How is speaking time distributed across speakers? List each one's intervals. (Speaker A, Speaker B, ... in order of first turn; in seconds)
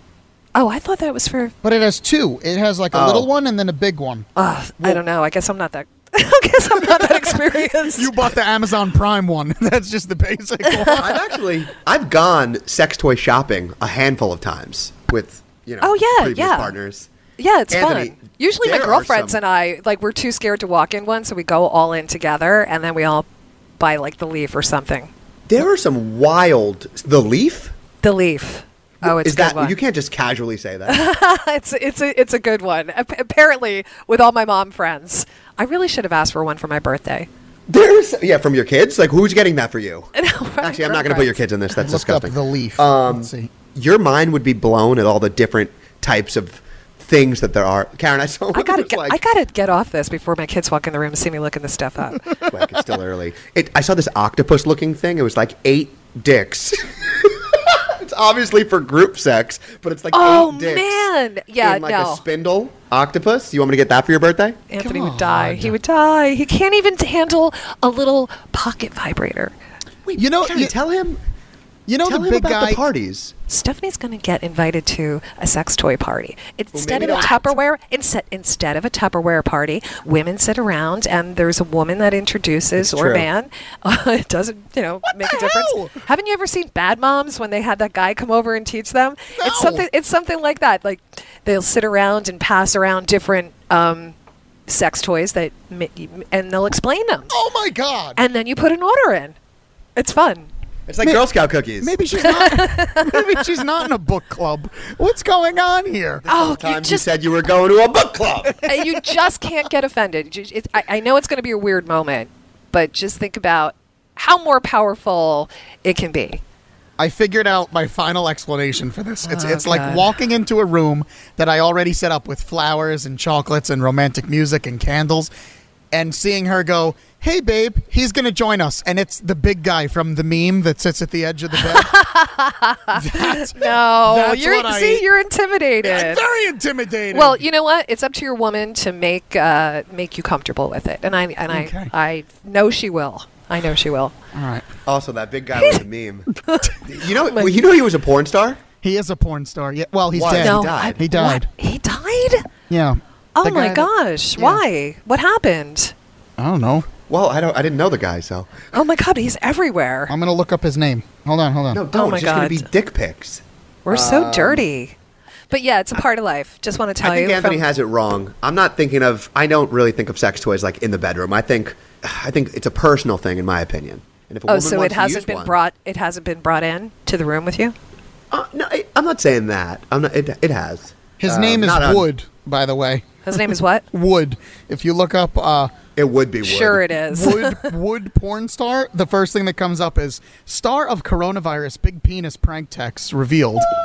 Speaker A: 0.5-1.5, 4.3-8.1, 15.8-16.8, 17.4-23.2, 23.8-25.1, 28.0-29.8, 30.9-37.3, 40.1-41.4, 48.5-52.2, 60.1-62.2, 64.7-69.5, 73.5-94.1, 94.7-97.3, 98.2-99.3, 100.0-100.5, 102.2-103.4, 106.3-107.1, 108.6-116.4, 119.2-120.1, 131.7-136.2, 137.1-144.1, 145.5-145.8, 146.5-146.7, 147.2-147.6, 150.3-152.4, 153.3-155.9, 158.7-160.1, 161.9-162.7, 163.8-164.9, 165.5-167.6, 174.5-177.7, 183.2-183.8, 186.4-187.7
Speaker B: 1.6-4.3, 7.9-11.2, 41.8-43.5, 64.8-65.8, 70.1-70.7, 71.9-72.8, 85.1-85.9, 89.3-89.8, 97.3-98.2, 101.0-106.2, 117.0-125.3, 125.9-131.9, 132.9-135.0, 135.8-137.4, 141.5-141.9, 144.3-144.6, 148.8-151.5, 152.7-154.5, 156.4-156.9, 160.1-161.8, 181.2-183.1, 183.9-185.7, 187.1-193.7
Speaker C: 2.9-3.3, 10.9-17.1, 17.7-19.4, 25.5-27.7, 29.0-31.0, 37.7-40.1, 40.6-49.2, 52.5-61.0, 61.6-64.6, 70.0-71.2, 72.0-73.3, 76.7-77.5, 82.8-83.3, 100.9-102.0, 106.2-108.6, 144.8-146.3, 146.8-148.6, 150.1-151.0, 157.1-158.7, 161.7-164.7, 167.0-175.6, 178.3-182.1, 185.9-186.8